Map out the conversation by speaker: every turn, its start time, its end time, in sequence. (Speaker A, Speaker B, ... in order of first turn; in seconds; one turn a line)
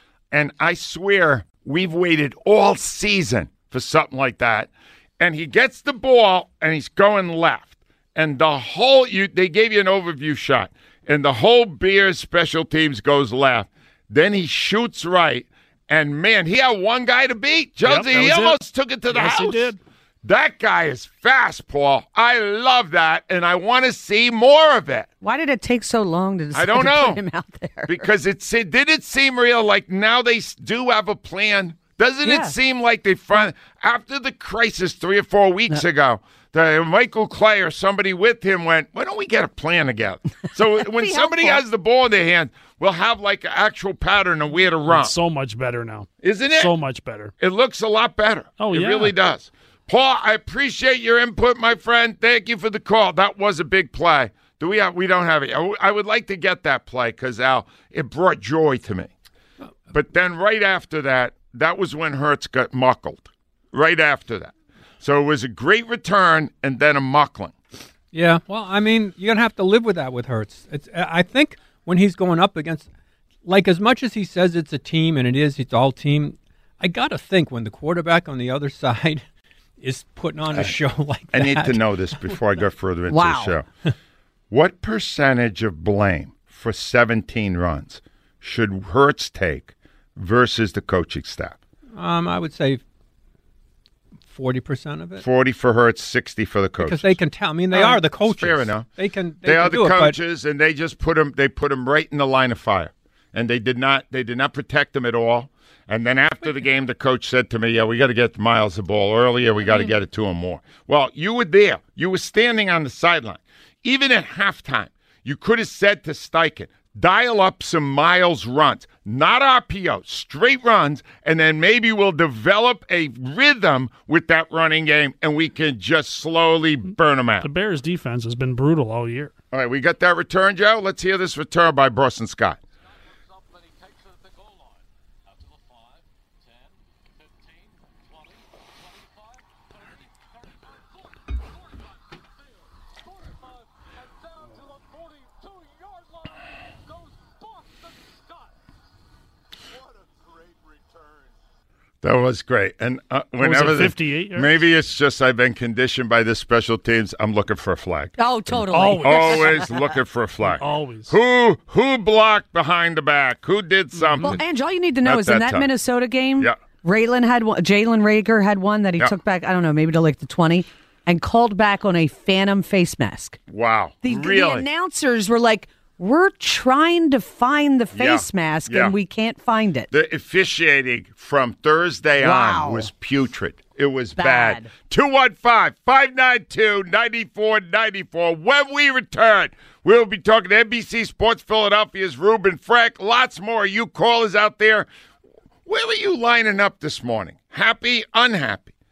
Speaker A: 0.3-19.7
Speaker B: 17.8-18.6
Speaker B: 19.1-19.8
Speaker A: 20.2-25.1
Speaker C: 25.2-28.1
Speaker A: 26.5-27.2
Speaker A: 27.9-45.1
Speaker C: 32.2-32.6
Speaker C: 40.9-41.6
Speaker B: 44.9-47.3
Speaker A: 46.2-46.7
Speaker A: 47.4-59.1
Speaker B: 48.6-49.1
Speaker A: 59.9-67.6
Speaker D: 68.1-72.9
Speaker D: 73.5-79.2
Speaker D: 79.8-81.8
Speaker A: 81.3-83.7
Speaker C: 83.1-83.5
Speaker A: 84.5-91.6
Speaker D: 92.0-92.8
Speaker D: 94.3-95.3
Speaker A: 95.2-97.1
Speaker D: 96.8-100.2
Speaker A: 97.7-98.9
Speaker A: 99.4-127.5
Speaker B: 127.4-129.3
Speaker A: 129.5-132.6
Speaker A: 152.0-164.4
Speaker B: 153.4-154.6
Speaker C: 158.2-159.9
Speaker B: 158.7-159.6
Speaker B: 160.6-161.1
Speaker B: 164.0-164.4
Speaker C: 164.3-173.4
Speaker A: 165.0-165.7
Speaker A: 173.5-174.7
Speaker C: 174.0-179.9
Speaker A: 177.9-178.9
Speaker A: 179.9-194.9
Speaker C: 182.2-182.9
Speaker C: 184.2-184.7
Speaker A: 195.7-198.7